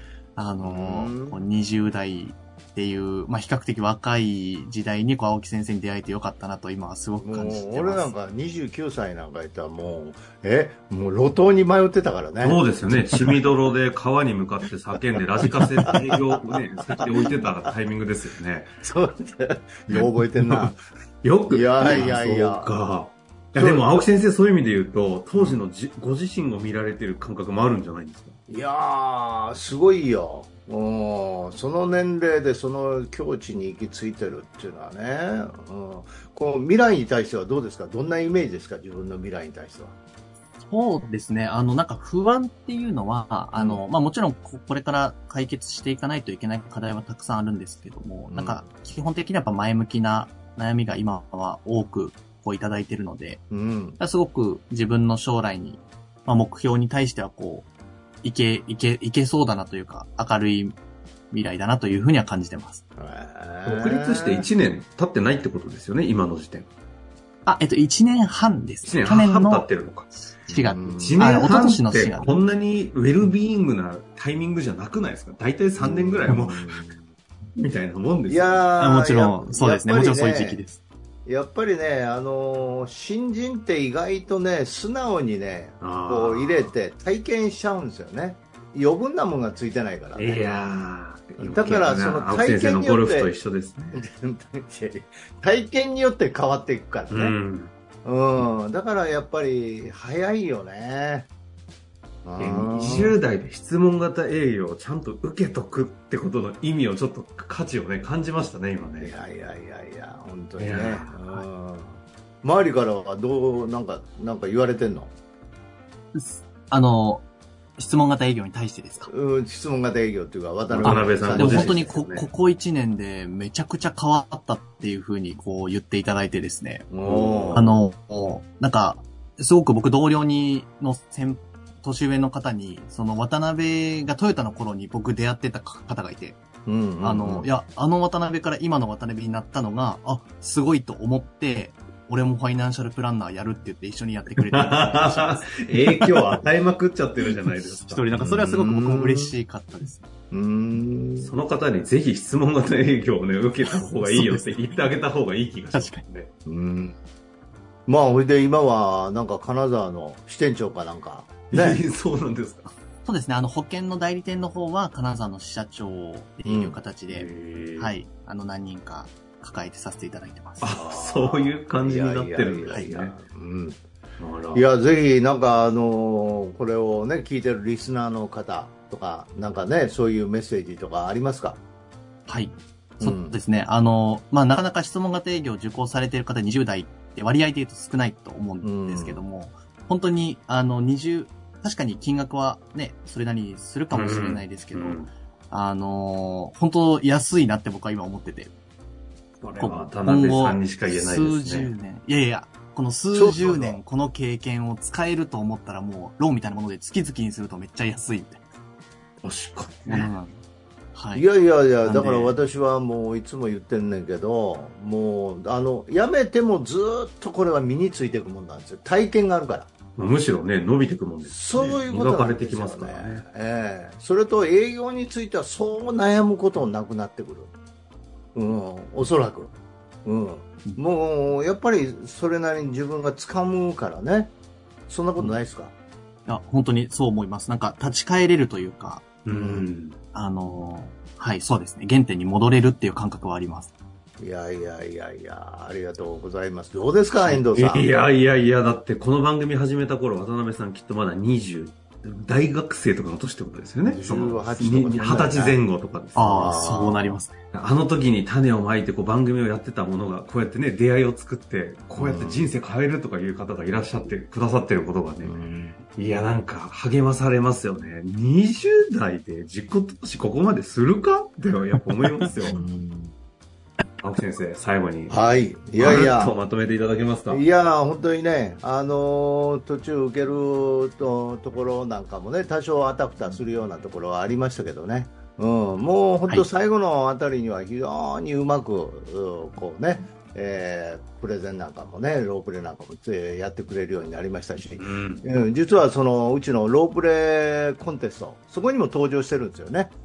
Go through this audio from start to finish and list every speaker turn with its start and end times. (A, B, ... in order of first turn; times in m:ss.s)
0:00.4-0:08.1 A
0:00.6-0:01.4 B
0:07.2-0:13.5 B
0:12.4-0:18.8 C
0:15.6-0:16.4 B
0:17.0-0:17.6 B
0:18.8-0:20.8 B
0:19.9-0:28.4 C
0:21.5-0:22.7 B
0:23.6-0:23.9 B
0:25.4-0:25.6 B
0:28.5-0:40.0 B
0:40.7-0:53.4 A
0:43.6-0:43.8 B
0:48.3-0:48.6 B
0:53.5-0:54.0 B
0:54.0-0:57.7 A
0:58.2-1:00.8 A
1:01.3-1:02.8 A
1:03.0-1:04.5 B
1:03.6-1:06.7 C
1:07.5-1:12.3 A
1:08.8-1:10.1 C
1:10.5-1:11.4 B
1:11.0-1:16.8 C
1:15.8-1:17.1 B
1:17.6-1:18.6 C
1:18.3-1:20.6 B
1:18.8-1:20.8 A
1:21.3-1:30.4 B
1:25.8-1:26.7 C
1:30.2-1:34.0 C
1:31.4-1:33.3 B
1:33.9-1:37.4 B
1:37.1-1:37.7 C
1:38.0-1:41.3 B
1:42.2-1:43.2 B
1:42.4-1:49.1 C
1:49.0-1:55.1 B
1:50.6-1:51.2 C
1:56.1-1:57.3 A
1:57.8-1:59.1 A
1:59.1-2:02.0 B
2:00.7-2:02.3 C
2:00.8-2:06.9 A
2:06.9-2:07.8 B
2:07.0-2:07.7 C
2:07.6-2:16.4 A
2:16.7-2:17.5 B
2:17.0-2:25.7 A
2:24.4-2:28.1 C
2:27.6-2:30.1 A
2:28.1-2:29.3 B
2:30.3-2:31.4 B
2:31.2-2:36.3 C
2:33.6-2:34.7 A
2:35.7-2:36.0 A
2:36.5-2:37.0 B
2:37.9-2:41.8 B
2:41.5-2:42.7 C
2:43.0-2:50.7 A
2:46.4-2:46.8 B
2:47.1-2:48.0 C
2:50.6-2:53.2 C
2:50.7-2:53.8 B
2:54.2-2:54.6 C
2:54.5-3:01.6 B
3:02.3-3:18.5 A
3:03.0-3:03.4 B
3:08.6-3:09.2 B
3:13.9-3:15.1 C
3:19.4-3:21.7 C
3:19.6-3:28.4 A
3:23.1-3:23.8 B
3:29.2-3:30.1 C
3:29.9-3:30.4 A
3:31.0-3:31.2 A
3:31.1-3:39.7 B
3:31.8-3:32.4 A
3:40.0-3:43.2 C
3:41.3-3:47.5 B
3:48.4-3:49.5 B
3:50.0-3:54.4 B
3:54.9-3:55.7 B
3:56.3-3:59.1 A
3:59.2-4:00.0 C
3:59.3-3:59.7 B
4:00.1-4:03.7 A
4:04.2-4:07.9 B
4:07.5-4:16.5 C
4:13.8-4:15.6 B
4:16.2-4:17.3 A
4:16.3-4:17.2 B
4:17.5-4:25.4 C
4:22.0-4:22.5 B
4:25.2-4:25.8 B
4:26.0-4:32.6 C
4:32.5-4:33.1 B
4:34.0-4:35.2 C
4:35.1-4:36.4 B
4:35.8-4:37.4 C
4:37.3-5:00.0 B
4:54.8-4:55.2 C